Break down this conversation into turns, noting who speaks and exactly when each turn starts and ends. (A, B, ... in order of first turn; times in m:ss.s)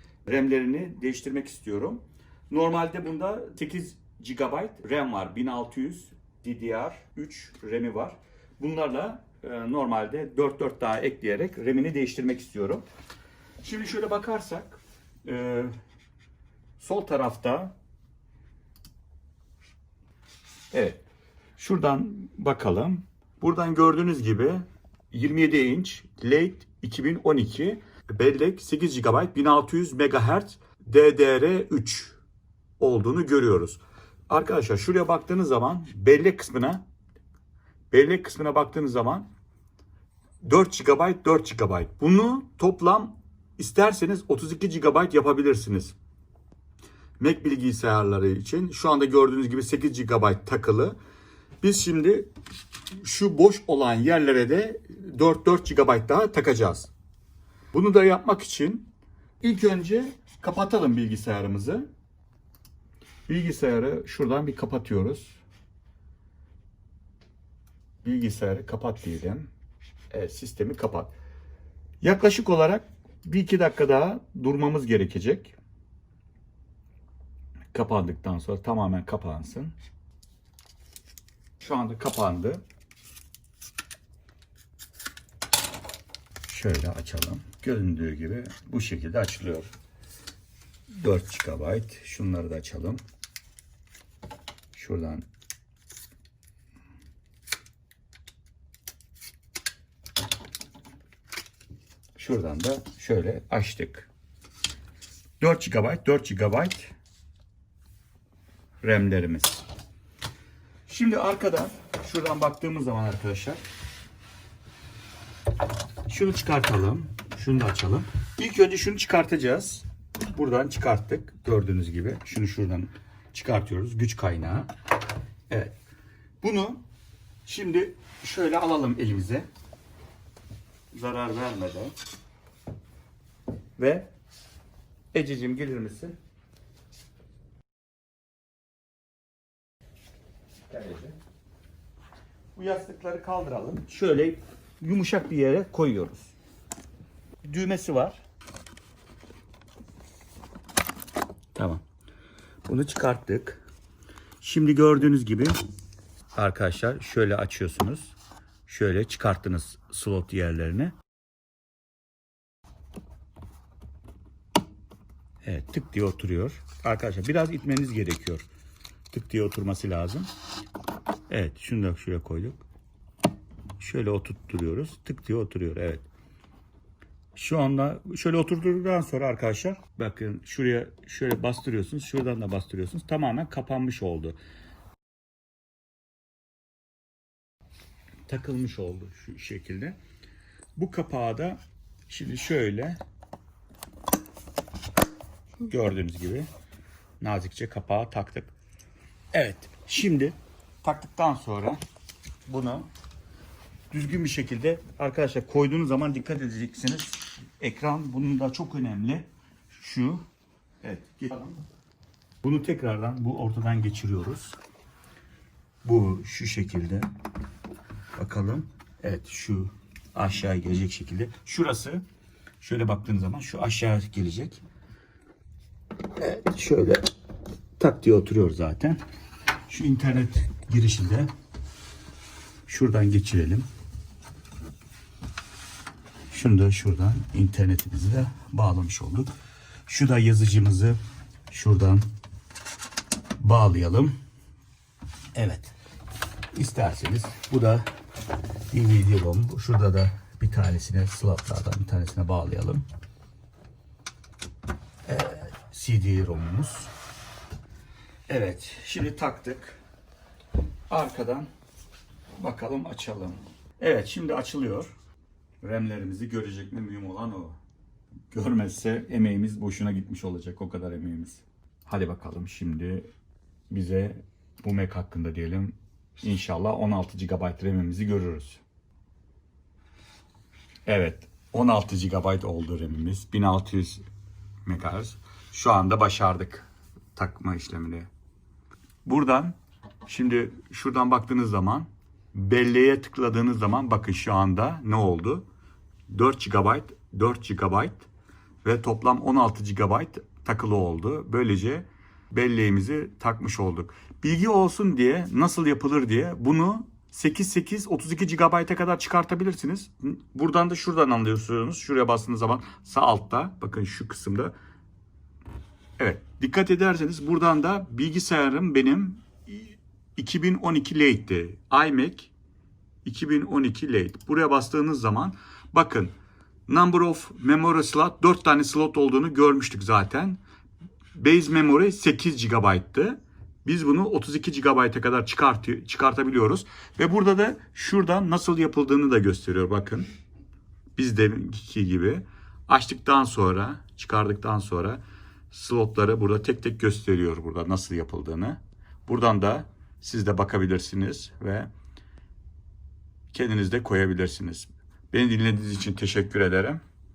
0:00.2-0:12.8 A
0:13.6-0:15.7 A
0:16.8-0:17.7 A
0:20.7-0:21.0 A
0:21.6-0:32.2 A
0:32.8-0:36.8 A
0:37.9-0:39.3 A
0:40.4-0:46.0 A
0:47.2-0:51.0 A
0:51.6-0:52.3 A
0:52.9-0:56.9 A
0:57.7-0:58.9 A
0:59.4-1:01.9 A
1:03.3-1:05.4 A
1:08.0-1:09.5 A
1:10.1-1:11.1 A
1:12.0-1:15.5 A
1:17.7-1:19.7 A
1:21.6-1:22.6 A
1:26.5-1:29.7 A
1:30.9-1:33.0 A
1:34.7-1:35.2 A
1:42.2-1:44.1 A
1:45.4-1:46.9 A
1:48.8-1:49.6 A
1:50.9-1:53.6 A
1:56.1-2:04.7 A
2:05.5-2:05.7 A
2:06.4-2:06.8 A
2:07.4-2:09.5 A
2:10.9-2:11.9 A
2:13.8-2:14.1 A
2:15.1-2:16.2 A
2:20.7-2:21.2 A
2:22.5-2:26.3 A
2:27.4-2:28.2 A
2:31.5-2:31.8 A
2:32.6-2:33.6 A
2:34.4-2:35.6 A
2:36.3-2:38.1 A
2:38.6-2:40.9 A
2:45.4-2:48.5 A
2:49.1-2:50.3 A
2:51.3-2:52.6 A
2:53.8-2:56.1 A
2:57.3-3:04.4 A
3:08.3-3:10.0 A
3:10.8-3:13.0 A
3:15.6-3:16.5 A
3:17.2-3:18.5 A
3:19.3-3:21.8 A
3:22.4-3:22.9 A
3:23.9-3:30.2 A
3:30.8-3:31.6 A
3:32.4-3:34.6 A
3:35.8-3:37.1 A
3:38.2-3:42.0 A
3:42.6-3:44.6 A
3:46.2-3:47.1 A
3:47.8-3:49.0 A
3:49.7-3:51.3 A
3:52.7-3:53.7 A
3:56.3-3:59.3 A
3:59.9-4:01.0 A
4:01.5-4:02.0 A
4:03.4-4:04.1 A
4:05.3-4:05.7 A
4:06.5-4:07.9 A
4:08.7-4:12.8 A
4:15.0-4:16.9 A
4:18.3-4:19.8 A
4:20.9-4:21.5 A
4:22.4-4:24.9 A
4:25.6-4:27.6 A
4:28.3-4:33.1 A
4:33.7-4:38.6 A
4:40.8-4:44.0 A
4:44.6-4:48.1 A
4:49.0-4:49.6 A
4:50.1-4:55.4 A
4:56.1-4:58.1 A
4:58.6-5:14.5 A
5:16.0-5:22.3 A
5:23.0-5:26.1 A
5:26.7-5:30.4 A
5:31.1-5:40.1 A
5:41.0-5:51.7 A
5:53.3-5:56.8 A